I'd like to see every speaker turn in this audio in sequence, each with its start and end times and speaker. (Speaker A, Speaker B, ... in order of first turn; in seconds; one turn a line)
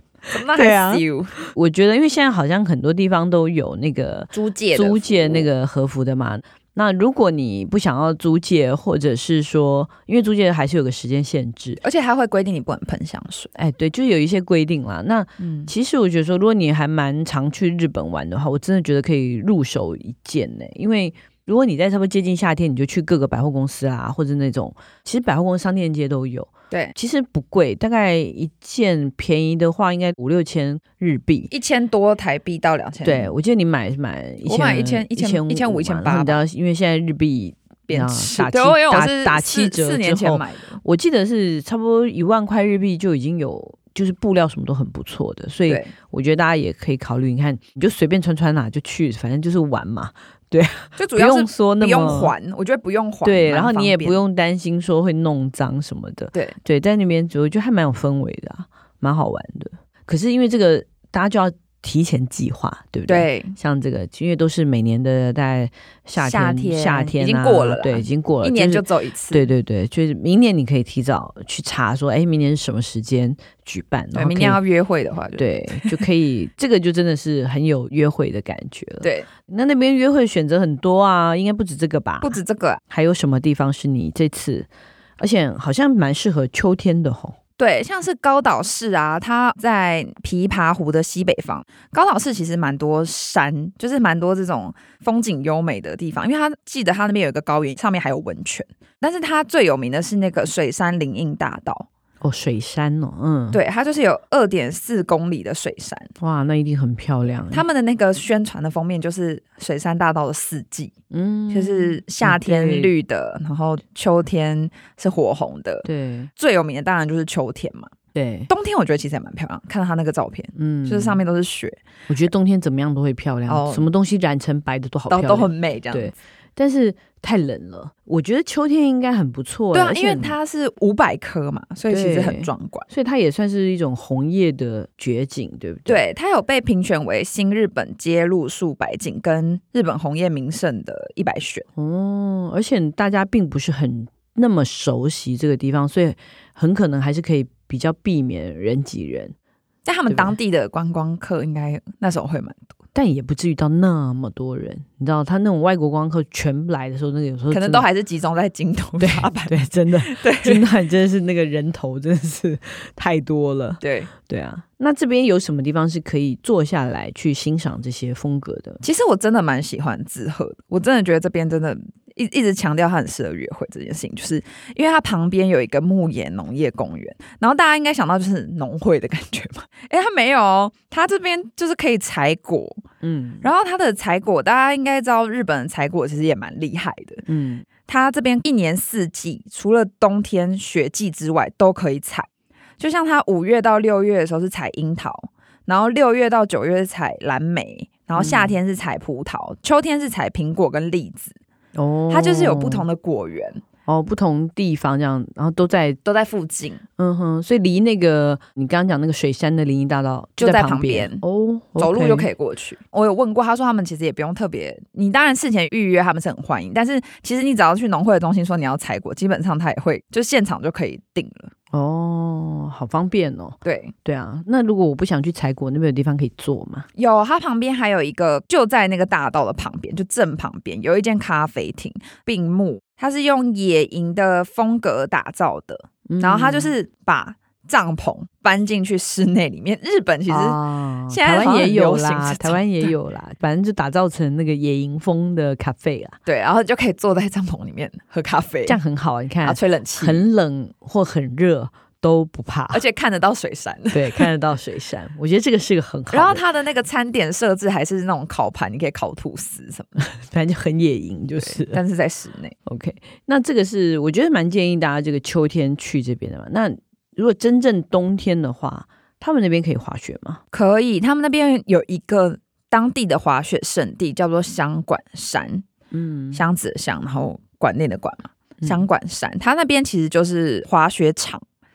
Speaker A: 0.3-1.4
Speaker B: 0.5-11.8
Speaker A: 4.3-5.5
Speaker A: 11.8-13.5
Speaker B: 13.6-31.5
Speaker A: 15.4-15.7
Speaker A: 31.5-33.3
Speaker B: 33.0-52.3
Speaker A: 34.5-36.4
Speaker A: 37.9-40.8
Speaker A: 51.0-54.2
Speaker B: 53.2-74.6
Speaker A: 63.1-63.5
Speaker A: 66.2-69.5
Speaker A: 74.1-76.0
Speaker B: 75.4-84.7
Speaker A: 79.0-79.3
Speaker A: 82.2-82.8
Speaker B: 85.2-87.4
Speaker A: 87.6-101.9
Speaker B: 102.2-103.6
Speaker A: 103.5-106.1
Speaker B: 106.2-107.7
Speaker A: 107.5-110.9
Speaker B: 111.1-112.9
Speaker A: 111.5-117.9
Speaker B: 115.8-116.3
Speaker B: 118.1-118.5
Speaker A: 118.5-121.8
Speaker B: 120.5-121.2
Speaker B: 122.1-130.4
Speaker A: 123.5-123.9
Speaker A: 125.1-126.1
Speaker A: 129.7-132.9
Speaker B: 131.9-136.0
Speaker A: 135.9-141.7
Speaker B: 141.8-149.3
Speaker A: 149.8-152.6
Speaker B: 150.1-150.3
Speaker B: 152.9-157.9
Speaker A: 157.5-160.7
Speaker B: 159.0-168.8
Speaker A: 163.8-164.1
Speaker A: 168.8-182.8
Speaker B: 183.0-183.5
Speaker A: 183.4-187.2
Speaker B: 187.3-187.7
Speaker A: 187.9-201.3
Speaker B: 198.2-198.6
Speaker B: 201.8-202.8
Speaker A: 202.1-203.6
Speaker B: 203.9-206.0
Speaker A: 206.0-206.8
Speaker B: 207.0-212.3
Speaker A: 210.4-211.2
Speaker A: 211.8-221.5
Speaker B: 221.7-226.9
Speaker A: 223.7-223.9
Speaker A: 227.0-242.9
Speaker B: 236.1-236.7
Speaker B: 240.3-246.2
Speaker A: 246.2-248.8
Speaker B: 248.7-252.8
Speaker A: 249.4-250.2
Speaker A: 252.7-254.3
Speaker B: 253.9-256.4
Speaker A: 256.1-260.0
Speaker B: 260.0-261.8
Speaker A: 261.4-262.5
Speaker B: 262.7-270.4
Speaker A: 270.5-275.7
Speaker B: 275.9-276.4
Speaker A: 276.3-281.4